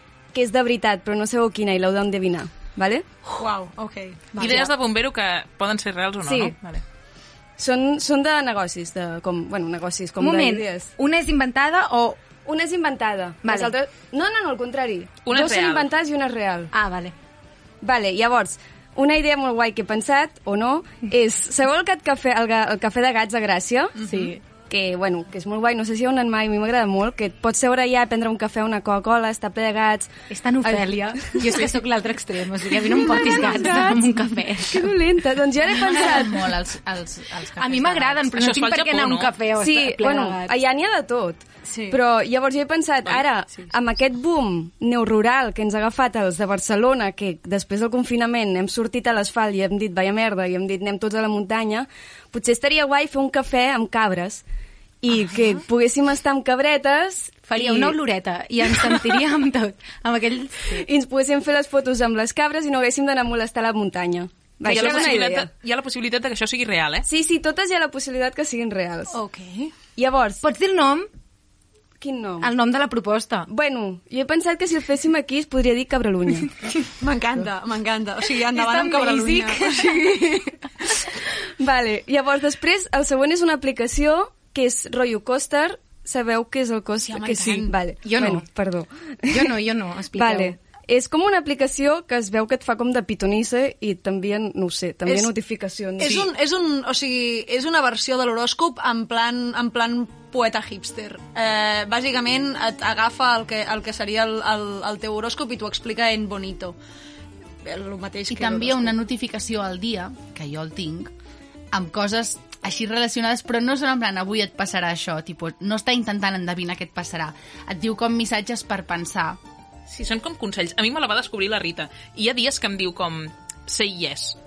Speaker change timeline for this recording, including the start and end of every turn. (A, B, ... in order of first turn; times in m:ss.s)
0:00.3-0:03.1 A
0:03.4-0:04.3 B
0:04.4-0:06.8 C
0:04.4-0:04.7 A
0:04.4-0:04.6 D
0:06.2-0:06.6 A
0:07.6-0:10.9 A
0:10.2-0:12.2 D
0:12.5-0:16.7 A
0:13.4-0:13.7 D
0:15.2-0:15.9 C
0:16.7-0:17.1 D
0:17.8-0:23.9 A
0:24.0-0:24.3 B
0:24.6-0:30.1 A
0:30.3-0:34.8 D
0:30.6-0:31.6 A
0:32.9-0:36.4 A
0:35.9-0:38.3 E
0:37.6-0:40.5 D
0:38.4-0:39.3 C
0:39.5-0:54.4 A
0:41.7-0:42.0 B
0:55.0-0:58.0 A
0:57.5-1:00.9 D
0:58.8-0:59.2 A
1:00.7-1:05.5 A
1:04.6-1:07.1 C
1:07.1-1:09.2 A
1:09.1-1:09.7 B
1:10.0-1:10.4 A
1:10.4-1:11.1 D
1:12.0-1:12.5 A
1:12.4-1:13.5 D
1:13.5-1:16.6 A
1:17.0-1:20.2 B
1:18.6-1:19.7 D
1:19.9-1:20.4 A
1:21.6-1:29.5 A
1:27.0-1:27.7 B
1:28.0-1:28.5 D
1:29.3-1:30.6 D
1:30.1-1:36.2 A
1:36.0-1:46.8 B
1:47.6-1:49.0 B
1:48.3-1:51.1 E
1:51.7-1:59.4 E
1:59.9-2:04.4 C